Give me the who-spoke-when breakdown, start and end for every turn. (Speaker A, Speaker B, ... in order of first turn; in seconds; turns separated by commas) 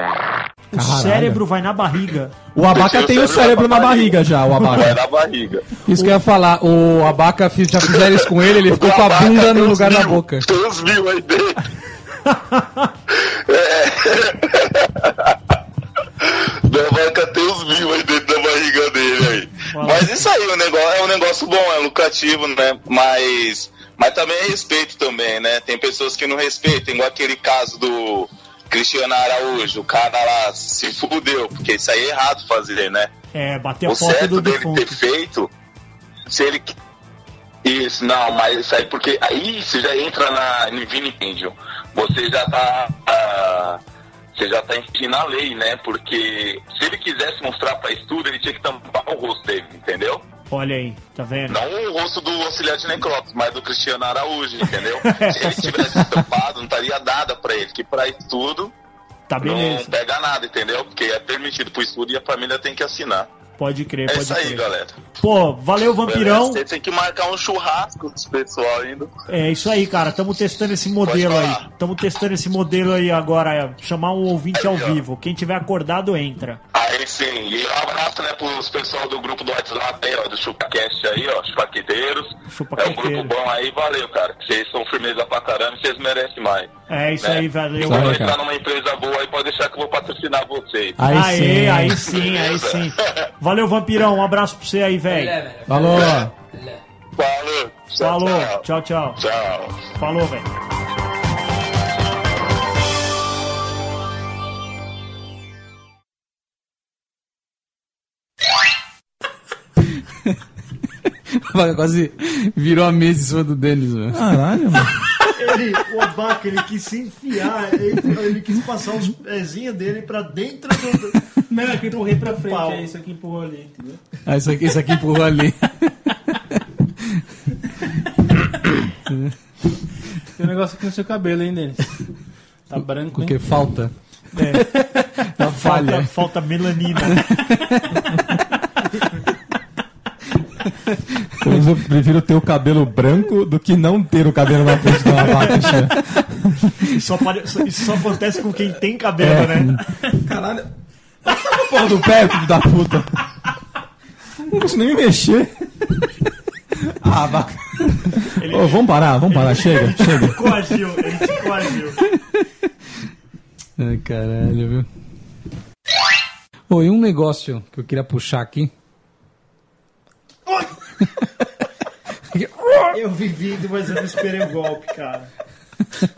Speaker A: 0.7-2.4, Speaker B: 0.7-1.4, Speaker B: 2.5-5.0, Speaker C: 2.7-4.2, Speaker A: 4.5-4.9, Speaker C: 4.7-5.7, Speaker D: 5.9-10.5, Speaker C: 8.0-11.7, Speaker A: 12.3-12.9, Speaker C: 13.1-15.4, Speaker C: 16.2-33.1, Speaker A: 19.7-20.2, Speaker A: 33.3-35.0, Speaker C: 33.9-35.5, Speaker C: 36.3-36.7, Speaker C: 37.6-43.8, Speaker C: 44.4-50.2, Speaker A: 50.5-51.6, Speaker C: 51.5-58.7, Speaker A: 54.8-56.0, Speaker A: 59.3-59.9, Speaker C: 59.4-63.3, Speaker A: 63.6-64.7, Speaker C: 64.1-65.0, Speaker A: 65.2-66.6, Speaker C: 66.1-69.1, Speaker A: 69.3-76.6, Speaker C: 71.0-71.7, Speaker C: 74.6-75.0, Speaker C: 76.7-86.7, Speaker A: 82.5-83.3, Speaker A: 86.9-88.2, Speaker C: 87.2-91.0, Speaker B: 87.8-88.4, Speaker B: 91.0-92.0, Speaker A: 91.1-95.5, Speaker C: 92.0-93.1, Speaker D: 95.1-96.8, Speaker B: 95.7-96.3, Speaker C: 97.2-98.6, Speaker A: 98.0-99.2, Speaker C: 99.2-99.9, Speaker A: 100.0-100.5, Speaker D: 111.3-114.2, Speaker B: 114.1-115.0, Speaker A: 115.3-121.2, Speaker E: 121.5-124.0, Speaker A: 121.8-122.9, Speaker D: 124.3-126.0, Speaker D: 126.5-127.2, Speaker D: 129.1-129.3, Speaker E: 130.4-131.9, Speaker E: 132.7-133.4, Speaker D: 133.1-136.1, Speaker A: 134.3-134.7, Speaker A: 135.4-137.3, Speaker D: 137.1-138.0, Speaker D: 141.3-141.6, Speaker B: 141.4-146.7, Speaker D: 145.5-145.9, Speaker A: 146.8-149.8, Speaker B: 149.2-150.7, Speaker B: 151.2-153.2, Speaker B: 154.4-156.1, Speaker B: 156.8-160.6, Speaker A: 158.4-162.0, Speaker D: 163.8-164.9, Speaker D: 166.7-168.7, Speaker D: 172.3-172.9, Speaker A: 172.9-175.3